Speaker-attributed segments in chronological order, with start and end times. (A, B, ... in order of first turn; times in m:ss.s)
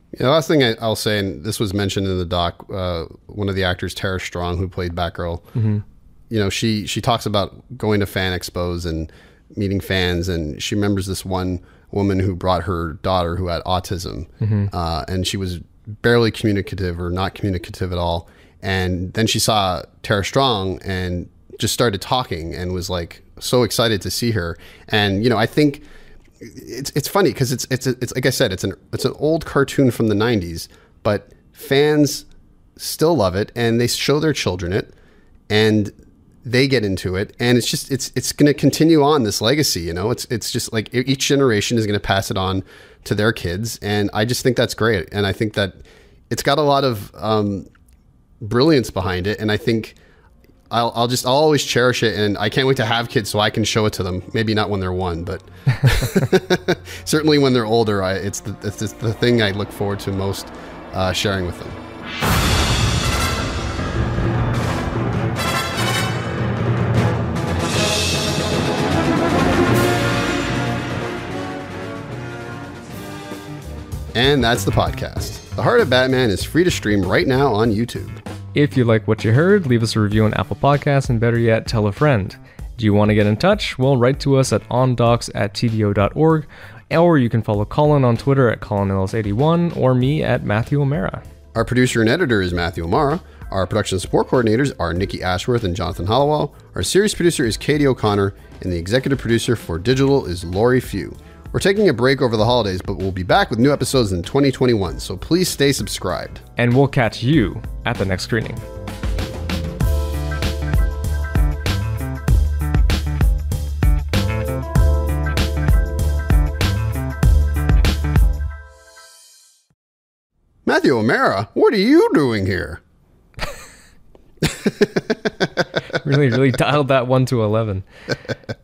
0:00.1-0:05.5 A
0:05.6-0:05.8 B
0:06.3-0:25.8 A
0:14.4-0:14.7 B
0:26.4-0:34.9 A
0:35.5-0:35.9 A
0:36.4-0:47.7 A
0:48.4-0:50.0 A
0:50.7-1:01.8 A
1:14.1-1:18.2 A
1:18.6-1:31.2 B
1:31.5-1:46.4 A
1:46.6-1:48.6 B
2:00.7-2:02.8 A
2:04.4-2:05.6 A
2:06.0-2:07.9 B